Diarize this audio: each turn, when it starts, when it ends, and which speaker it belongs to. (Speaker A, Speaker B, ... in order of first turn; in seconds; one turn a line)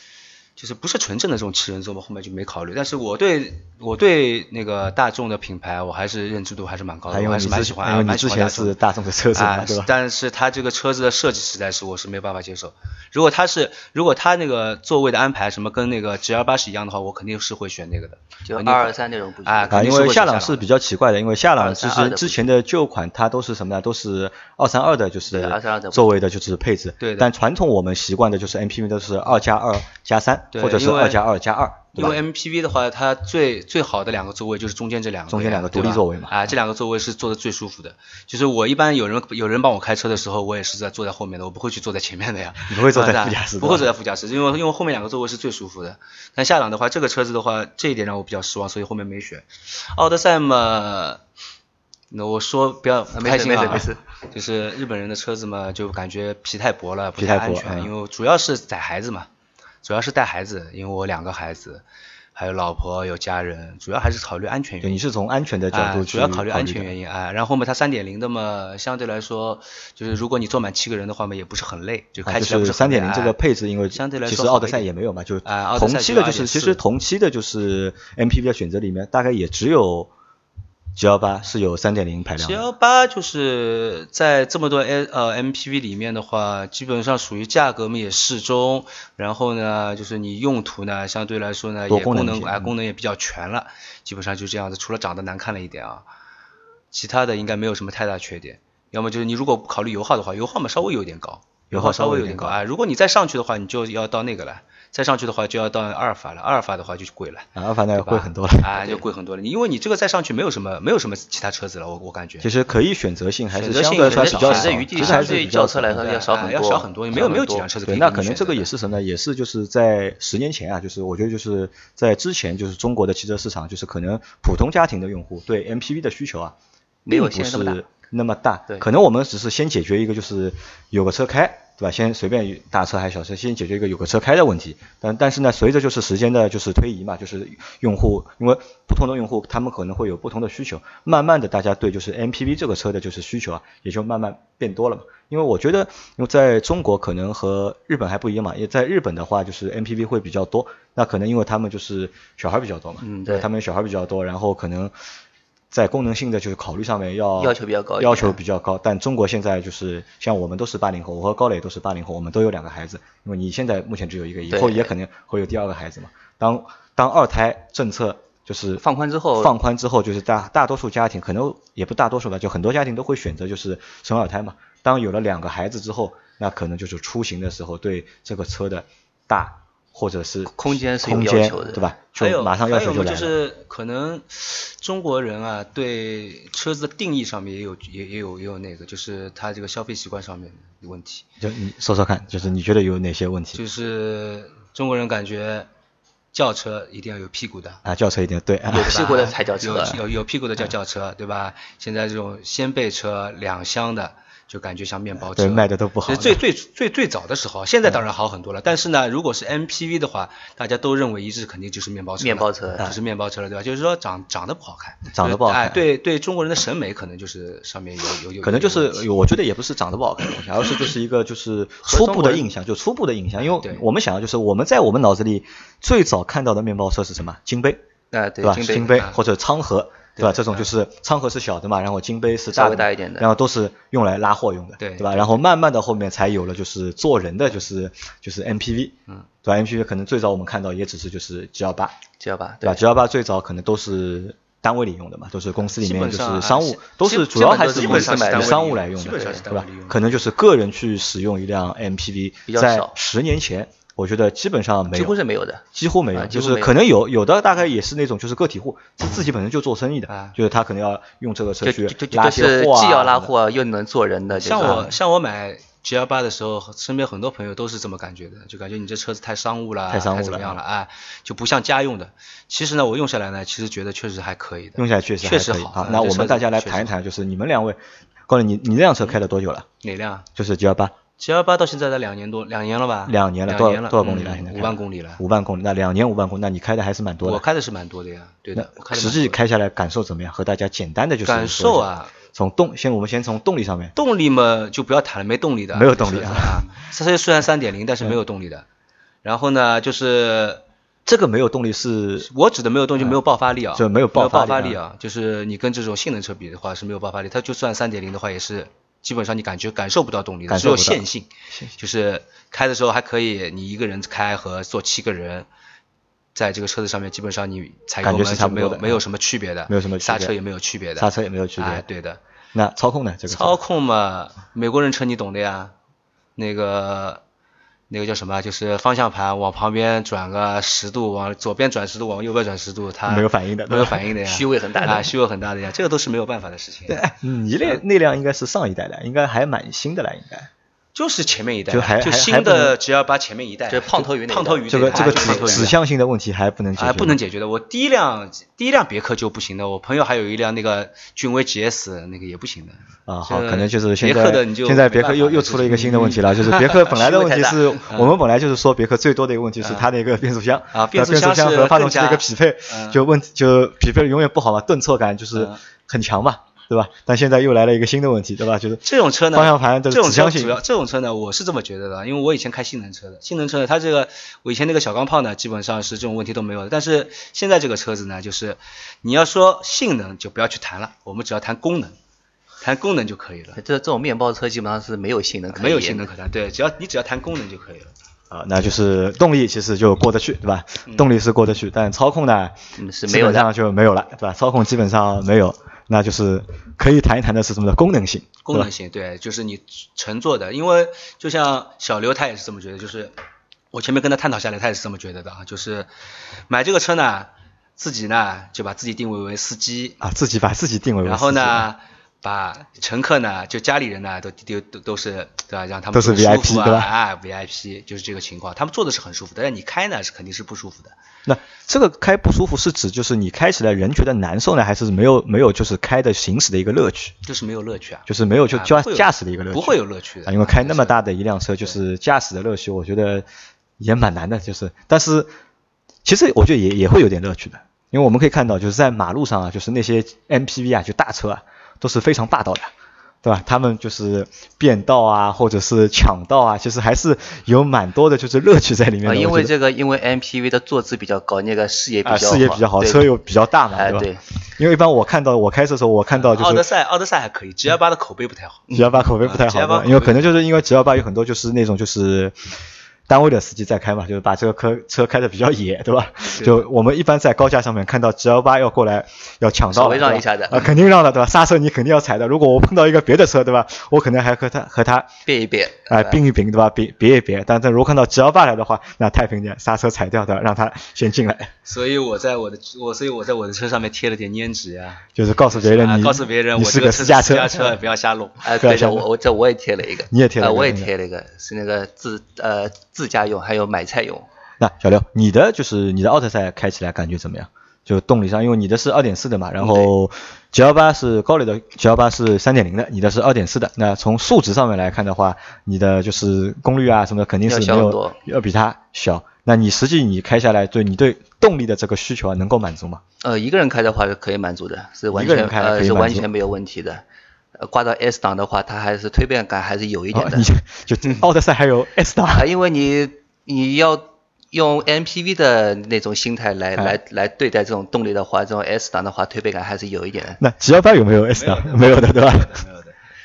Speaker A: 0.6-8.8
Speaker B: 7.1-9.9
Speaker A: 9.3-20.6
Speaker C: 18.5-19.8
Speaker B: 19.7-32.2
Speaker C: 21.6-22.5
Speaker C: 25.3-26.2
Speaker A: 27.0-27.3
Speaker A: 30.5-31.2
Speaker A: 31.9-51.2
Speaker B: 35.3-36.4
Speaker B: 42.7-43.9
Speaker A: 52.1-59.3
Speaker C: 53.1-54.0
Speaker B: 57.2-57.9
Speaker A: 59.8-61.8
Speaker A: 62.3-65.0
Speaker B: 64.8-66.9
Speaker A: 65.7-73.4
Speaker B: 72.2-80.1
Speaker A: 73.9-74.8
Speaker A: 75.4-76.8
Speaker B: 81.0-82.7
Speaker A: 82.4-96.0
Speaker B: 91.9-92.7
Speaker A: 96.9-112.5
Speaker B: 101.7-102.6
Speaker B: 107.5-108.9
Speaker B: 112.4-116.0
Speaker A: 113.5-118.7
Speaker C: 114.0-117.7
Speaker B: 117.8-126.5
Speaker C: 127.0-127.8
Speaker B: 127.1-154.9
Speaker C: 153.0-153.5
Speaker B: 155.7-168.8
Speaker C: 157.4-158.4
Speaker C: 164.5-164.9
Speaker C: 168.8-169.5
Speaker B: 169.4-183.3
Speaker C: 180.5-181.8
Speaker A: 182.1-191.2
Speaker B: 191.4-193.6
Speaker A: 193.5-195.7
Speaker A: 196.3-197.8
Speaker B: 197.8-199.2
Speaker C: 198.7-200.0
Speaker A: 198.7-219.1
Speaker B: 205.2-206.4
Speaker C: 212.2-212.9
Speaker B: 215.1-215.8
Speaker B: 218.4-227.8
Speaker C: 221.8-222.5
Speaker A: 223.6-223.8
Speaker C: 228.1-229.1
Speaker B: 228.4-241.9
Speaker A: 230.2-230.7
Speaker C: 232.5-233.3
Speaker A: 234.8-235.4
Speaker C: 242.2-242.8
Speaker B: 242.6-255.2
Speaker A: 245.7-250.0
Speaker C: 247.1-249.4
Speaker C: 252.5-252.9
Speaker C: 254.9-256.8
Speaker B: 255.7-263.3
Speaker A: 260.1-260.3
Speaker C: 261.6-264.9
Speaker A: 264.3-276.9
Speaker B: 269.9-270.6
Speaker B: 274.8-279.7
Speaker A: 279.8-280.2
Speaker B: 280.3-280.9
Speaker A: 281.2-285.2
Speaker B: 283.1-287.4
Speaker A: 287.2-289.4
Speaker B: 288.5-293.9
Speaker A: 291.2-292.1
Speaker A: 293.9-298.6
Speaker B: 295.7-296.7
Speaker A: 299.2-300.6
Speaker B: 301.1-302.3
Speaker A: 302.3-315.5
Speaker B: 303.7-304.8
Speaker B: 310.5-311.7
Speaker A: 316.3-322.2
Speaker B: 318.0-319.0
Speaker B: 319.7-320.3
Speaker B: 321.0-321.8
Speaker B: 322.5-323.6
Speaker A: 323.3-325.7
Speaker A: 326.4-327.2
Speaker A: 327.9-337.0
Speaker B: 333.1-334.1
Speaker C: 334.2-335.1
Speaker B: 336.9-340.5
Speaker A: 340.9-345.8
Speaker B: 341.7-342.8
Speaker C: 343.7-345.7
Speaker B: 344.7-347.2
Speaker A: 346.8-357.1
Speaker B: 353.1-370.6
Speaker C: 356.9-357.6
Speaker A: 357.8-358.2
Speaker A: 359.6-359.9
Speaker A: 360.7-363.0
Speaker A: 368.8-381.9
Speaker A: 382.6-383.6
Speaker C: 383.6-386.1
Speaker A: 385.5-387.9
Speaker B: 388.3-398.7
Speaker C: 392.8-393.5
Speaker A: 398.4-403.1
Speaker A: 403.7-405.9
Speaker A: 406.5-410.0
Speaker B: 410.0-411.7
Speaker A: 411.0-420.9
Speaker B: 415.9-416.9
Speaker B: 421.2-427.1
Speaker A: 427.2-431.0
Speaker B: 428.1-433.2
Speaker B: 433.8-435.3
Speaker B: 436.0-442.7
Speaker B: 443.2-449.5
Speaker C: 449.0-453.1
Speaker B: 452.0-456.7
Speaker C: 453.7-454.2
Speaker A: 456.1-458.7
Speaker B: 458.7-462.3
Speaker A: 459.2-460.3
Speaker B: 463.1-475.1
Speaker C: 469.7-470.7
Speaker C: 475.2-476.2
Speaker B: 475.9-481.5
Speaker A: 481.7-488.5
Speaker B: 485.1-487.8
Speaker C: 488.4-494.3
Speaker B: 488.6-489.1
Speaker B: 490.1-490.9
Speaker B: 494.6-513.0
Speaker C: 499.6-499.9
Speaker C: 507.5-508.2
Speaker C: 513.2-517.0
Speaker B: 515.1-516.3
Speaker C: 517.5-520.4
Speaker B: 520.1-522.5
Speaker C: 522.3-530.4
Speaker B: 530.4-532.6
Speaker A: 531.3-532.9